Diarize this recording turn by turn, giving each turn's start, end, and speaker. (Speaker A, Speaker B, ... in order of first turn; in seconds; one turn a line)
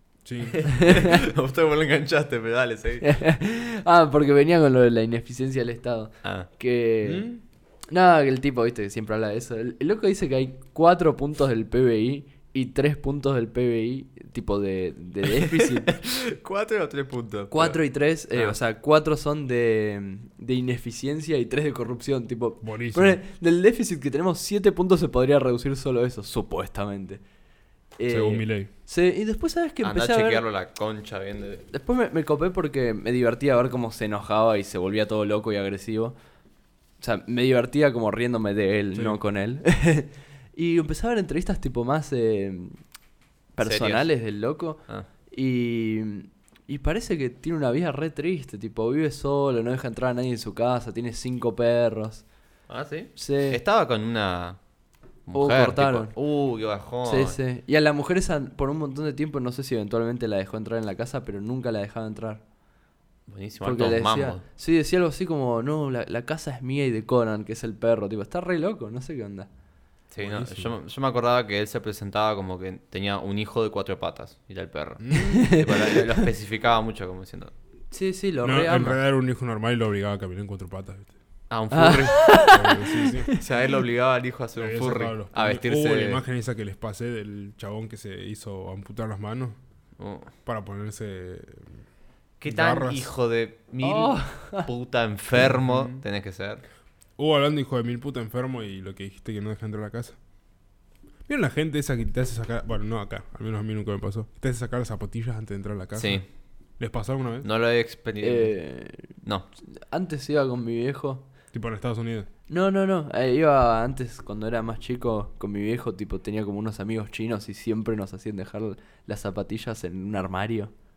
Speaker A: 0.2-0.8
Speaker B: 0.6-1.1
Speaker C: 0.8-3.2
Speaker B: 3.0-7.3
Speaker C: 6.2-6.5
Speaker A: 7.0-7.4
Speaker B: 7.9-16.0
Speaker C: 15.6-17.8
Speaker B: 17.5-27.2
Speaker A: 22.6-23.2
Speaker B: 28.0-30.4
Speaker A: 28.1-28.7
Speaker C: 29.8-31.7
Speaker B: 31.7-36.1
Speaker B: 37.0-42.8
Speaker B: 43.5-52.2
Speaker C: 43.6-44.1
Speaker C: 52.7-54.6
Speaker B: 53.1-53.6
Speaker C: 55.3-57.4
Speaker B: 55.3-56.1
Speaker B: 57.0-62.4
Speaker C: 63.3-64.4
Speaker B: 63.6-69.5
Speaker C: 70.1-77.5
Speaker A: 70.2-70.7
Speaker A: 75.0-75.5
Speaker B: 75.1-76.0
Speaker B: 77.9-79.0
Speaker A: 78.4-81.1
Speaker C: 81.5-82.5
Speaker B: 81.7-83.4
Speaker A: 82.4-83.3
Speaker C: 83.3-86.2
Speaker A: 84.6-89.6
Speaker C: 90.0-90.3
Speaker A: 90.5-91.7
Speaker C: 92.4-96.6
Speaker A: 92.5-93.1
Speaker B: 93.8-94.7
Speaker A: 95.4-96.0
Speaker A: 97.2-100.2
Speaker A: 101.3-106.2
Speaker C: 106.0-106.2
Speaker A: 106.8-107.5
Speaker C: 107.4-109.5
Speaker B: 108.2-111.2
Speaker A: 111.5-112.3
Speaker B: 112.5-120.7